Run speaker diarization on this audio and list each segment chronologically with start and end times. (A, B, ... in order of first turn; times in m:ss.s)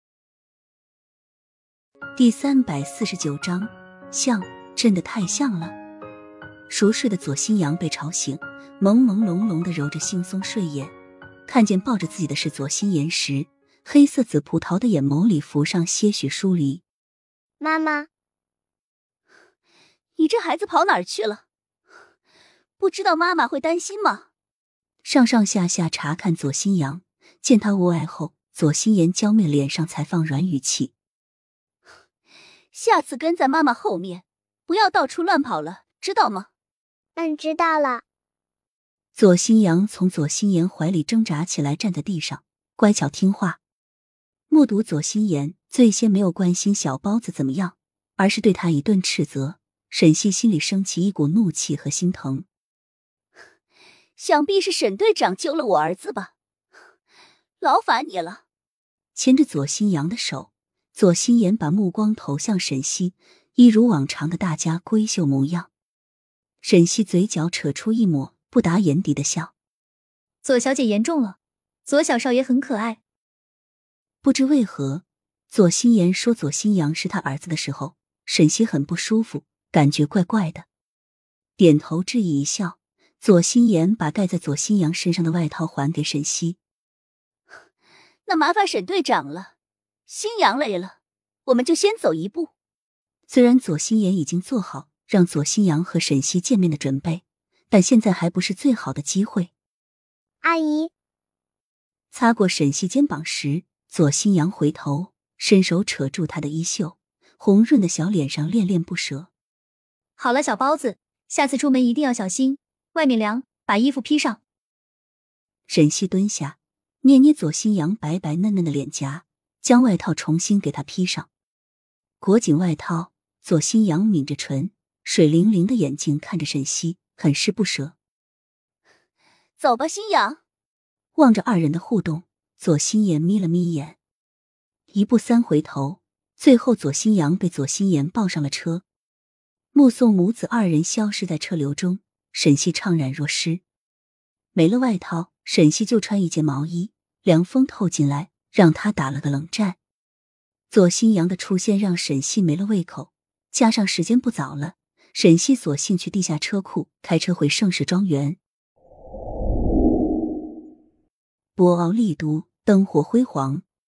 0:02.2-0:05.8 A
0:06.7-0:10.9 A
0:11.5-0:16.8 A
0:17.6-0:18.1 B
0:20.2-0:21.4 C
0:22.8-0:24.2 C
0:25.0-0:30.9 A
0:32.7-0:36.5 C
0:37.1-0:38.0 B
0:39.1-0:43.6 A
0:44.5-0:52.4 A
0:54.2-0:56.3 C
0:57.6-0:58.4 C
0:59.1-1:05.7 A
1:06.6-1:09.5 A
1:10.4-1:13.0 D
1:14.2-1:20.7 A
1:21.6-1:26.6 A
1:28.3-1:29.5 C
1:30.1-1:30.9 C
1:31.4-1:32.5 C
1:33.3-1:39.5 A
1:40.4-1:40.9 B
1:42.1-1:49.3 A
1:50.2-1:54.4 D
1:55.7-2:01.3 A
2:02.2-2:08.0 A
2:09.6-2:10.4 C
2:11.2-2:14.0 A
2:14.9-2:18.8 A
2:19.7-2:23.6 A
2:24.5-2:29.8 A
2:30.7-2:38.4 A
2:41.6-2:43.6 A